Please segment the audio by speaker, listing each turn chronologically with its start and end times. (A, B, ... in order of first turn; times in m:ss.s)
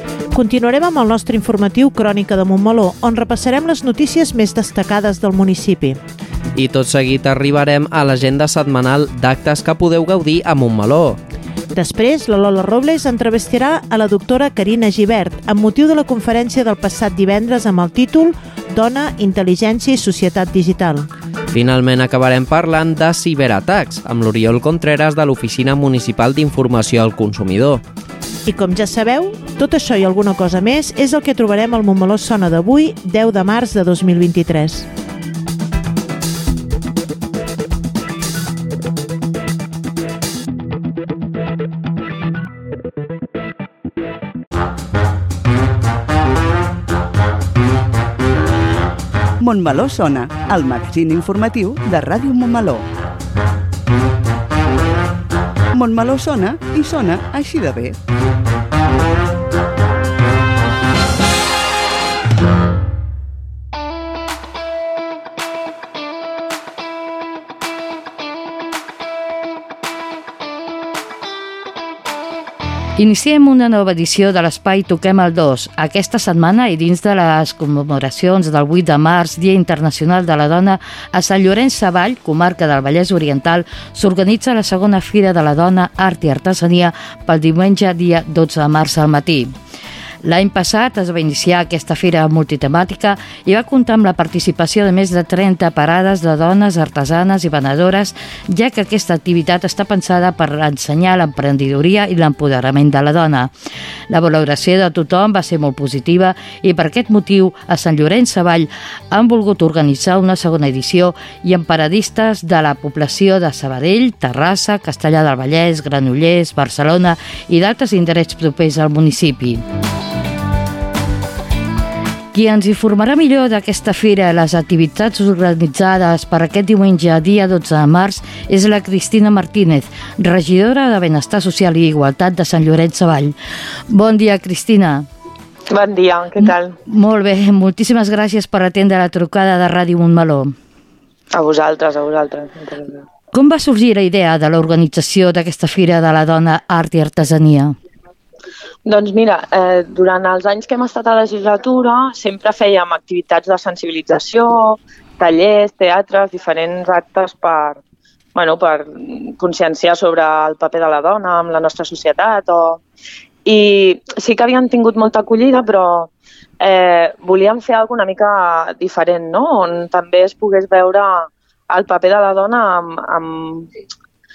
0:00.3-0:06.0 A
0:06.6-0:11.2 B
0:11.7-0:21.1 A
0:21.5-0:27.8 B
0:28.5-0:34.9 A
0:49.4-0:52.8 C
0:55.7-0:58.0 C
1:13.0-1:29.5 D
1:30.2-1:43.5 D
1:44.1-1:59.6 D
2:02.3-2:13.4 D
2:13.9-2:15.1 D
2:15.7-2:16.8 E
2:16.4-2:20.5 D
2:21.3-2:23.0 E
2:23.3-2:27.7 D
2:28.8-2:37.8 E
2:38.3-2:42.8 E
2:43.4-2:46.1 E
2:46.6-2:53.7 E